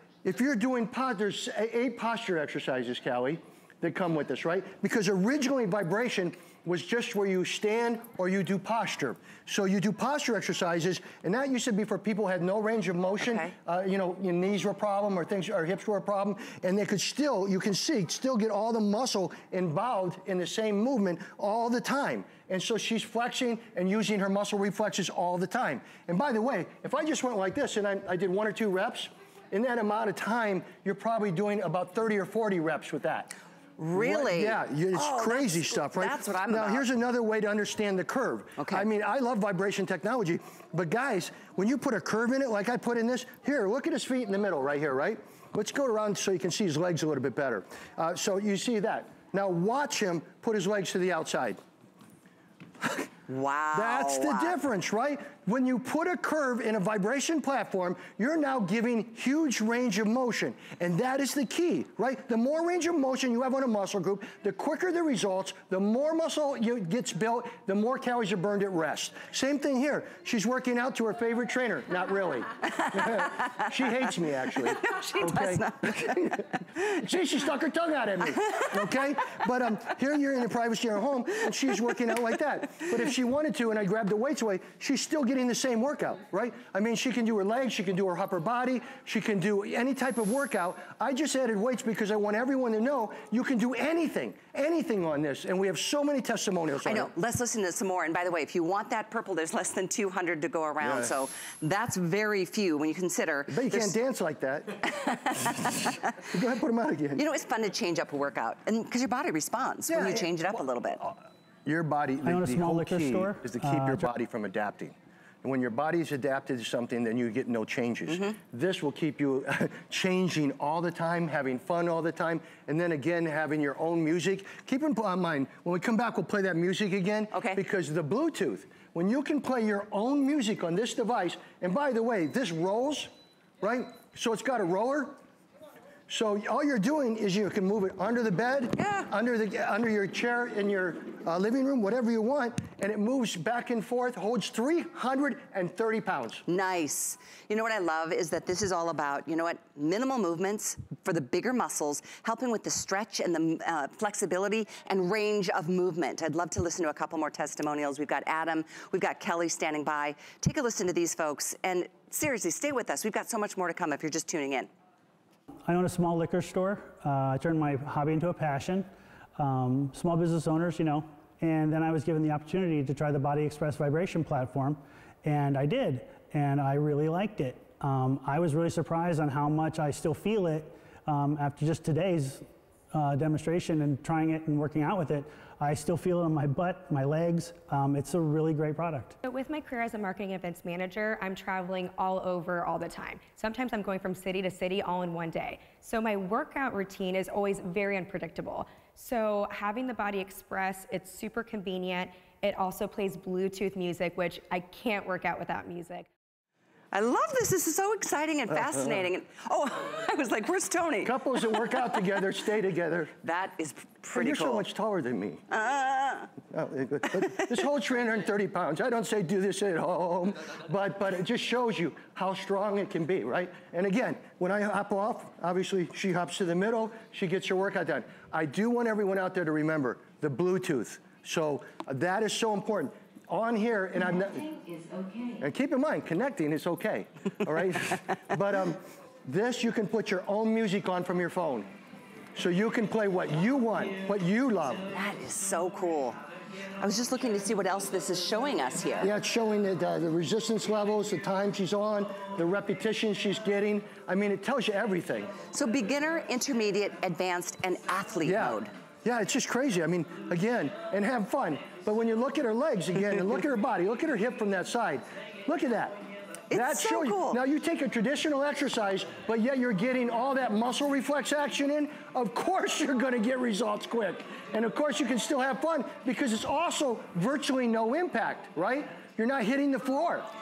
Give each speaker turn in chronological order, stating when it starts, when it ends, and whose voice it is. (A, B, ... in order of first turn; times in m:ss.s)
0:00.2-0:33.3 A
0:13.2-0:13.5 B
0:33.8-0:36.8 B
0:33.9-0:51.6 A
0:38.6-0:38.9 B
0:52.8-0:53.1 A
0:53.3-0:54.6 B
0:53.7-1:37.1 A
1:13.0-1:13.7 B
1:14.6-1:16.3 B
1:36.8-1:43.9 B
1:40.8-1:41.1 A
1:43.5-1:47.2 A
1:45.0-1:45.9 B
1:47.2-1:51.0 B
1:49.9-1:50.3 A
1:51.6-2:15.2 A
1:52.2-1:54.1 C
1:58.1-1:58.3 B
2:07.3-2:07.6 B
2:16.1-2:26.4 A
2:18.8-2:19.1 B
2:26.5-2:44.7 B
2:45.7-3:09.2 C
3:09.2-3:26.1 D
3:26.9-3:32.0 B
3:28.7-3:29.0 A
3:31.0-3:33.1 A
3:33.2-3:34.7 B
3:34.2-3:35.4 A
3:35.5-3:36.3 B
3:36.5-3:54.5 A
3:37.2-3:37.5 B
3:55.4-4:01.7 A
4:02.4-4:04.8 A
4:04.9-4:06.2 B
4:06.8-4:09.1 B
4:09.0-4:15.3 A
4:15.5-4:18.7 B
4:18.2-4:40.3 A
4:26.5-4:27.4 B